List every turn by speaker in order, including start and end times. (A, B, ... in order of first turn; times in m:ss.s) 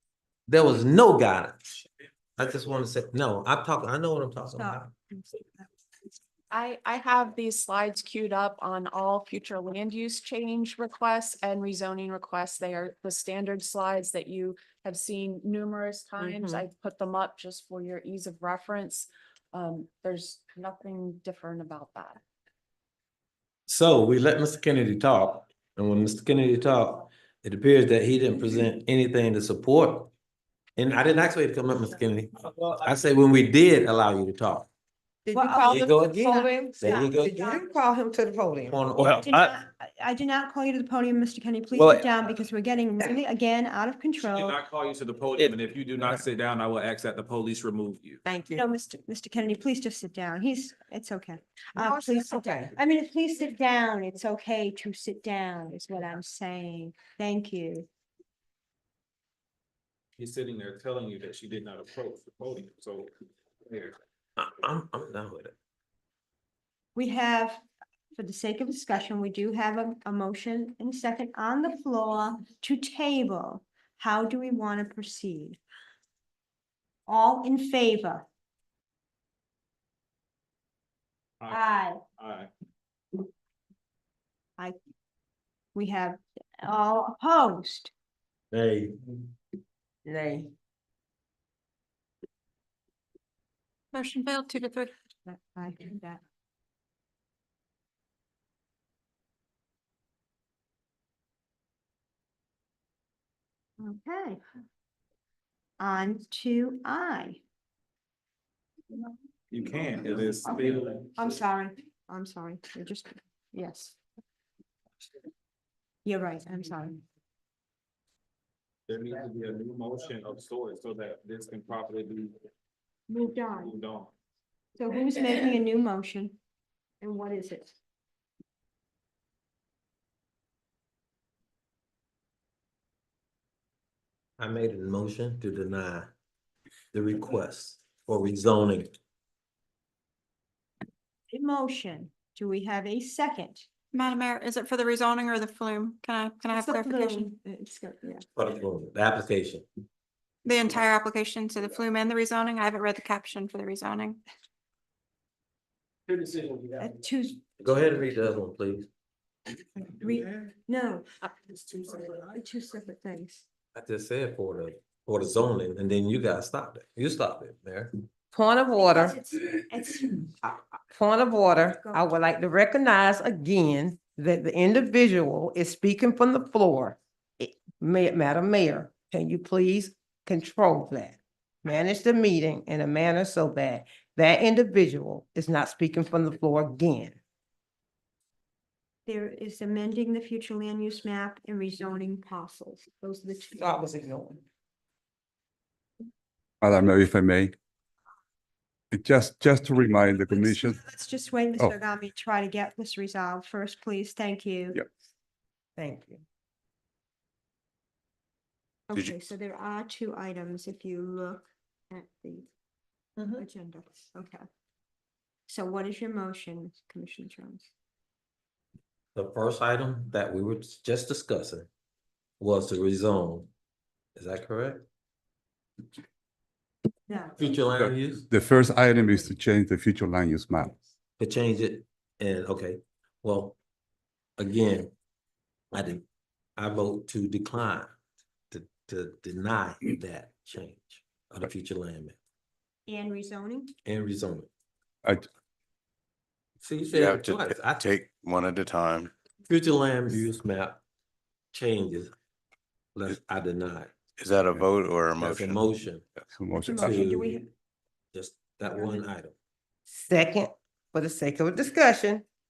0:00.5-0:01.6 A
0:02.4-0:04.9 A
0:04.6-0:05.7 B
0:06.5-0:22.2 C
0:16.2-0:16.6 D
0:23.7-0:30.1 A
0:30.8-0:34.7 A
0:35.2-0:38.8 D
0:35.3-0:37.6 B
0:35.7-0:36.1 A
0:36.8-0:37.4 A
0:38.6-0:39.3 A
0:39.1-0:44.6 B
0:44.2-0:48.2 E
0:48.2-0:48.6 D
0:48.5-0:57.9 B
0:51.8-0:52.7 D
1:00.2-1:03.1 E
1:03.6-1:03.9 E
1:04.4-1:05.5 A
1:07.0-1:07.6 B
1:08.1-1:15.6 B
1:17.1-1:18.2 B
1:21.4-1:22.5 E
1:21.5-1:22.0 B
1:25.7-1:27.9 B
1:28.5-1:29.1 A
1:30.0-1:30.5 D
1:33.9-1:34.9 F
1:35.2-1:36.2 B
1:43.8-1:44.4 B
1:45.8-1:47.4 B
1:49.5-1:51.1 E
1:50.4-1:54.0 B
1:56.0-1:57.0 B
1:58.9-2:02.3 E
2:03.1-2:03.7 B
2:03.5-2:04.1 E
2:04.8-2:06.4 B
2:07.0-2:07.7 B
2:14.4-2:16.1 A
2:16.9-2:18.9 A
2:21.3-2:23.6 B
2:23.9-2:27.3 F
2:26.5-2:28.2 B
2:28.3-2:29.6 A
2:30.4-2:34.2 F
2:36.8-2:37.4 B
2:37.6-2:38.9 A
2:39.8-2:43.5 B
2:43.7-2:47.9 A
2:48.3-2:49.2 D
2:48.8-2:50.3 B
2:50.9-3:07.2 D
2:51.8-2:52.1 B
3:09.0-3:13.7 B
3:13.6-3:14.4 D
3:16.6-3:17.5 G
3:18.9-3:20.8 G
3:20.1-3:24.8 B
3:25.8-3:26.2 D
3:28.9-3:32.5 B
3:33.2-3:33.4 D
3:33.4-3:34.4 B
3:35.5-3:37.7 B
3:39.1-3:41.7 A
3:42.4-3:43.5 A
3:44.2-3:44.8 A
3:47.1-3:47.4 B
3:47.4-3:48.3 A
3:47.8-3:50.8 G
3:51.2-3:53.6 A
3:54.4-3:54.9 A
3:55.7-3:56.0 A
3:56.6-3:57.9 A
3:58.5-4:02.2 A
4:02.9-4:03.7 B
4:03.8-4:04.5 A
4:06.6-4:07.9 A
4:06.9-4:09.1 H
4:09.5-4:10.8 A
4:11.5-4:12.1 A
4:12.9-4:13.9 A
4:14.2-4:15.7 H
4:15.2-4:16.0 A
4:16.3-4:17.2 G
4:16.6-4:17.5 B
4:16.8-4:17.4 A
4:18.1-4:19.3 A
4:19.9-4:22.2 D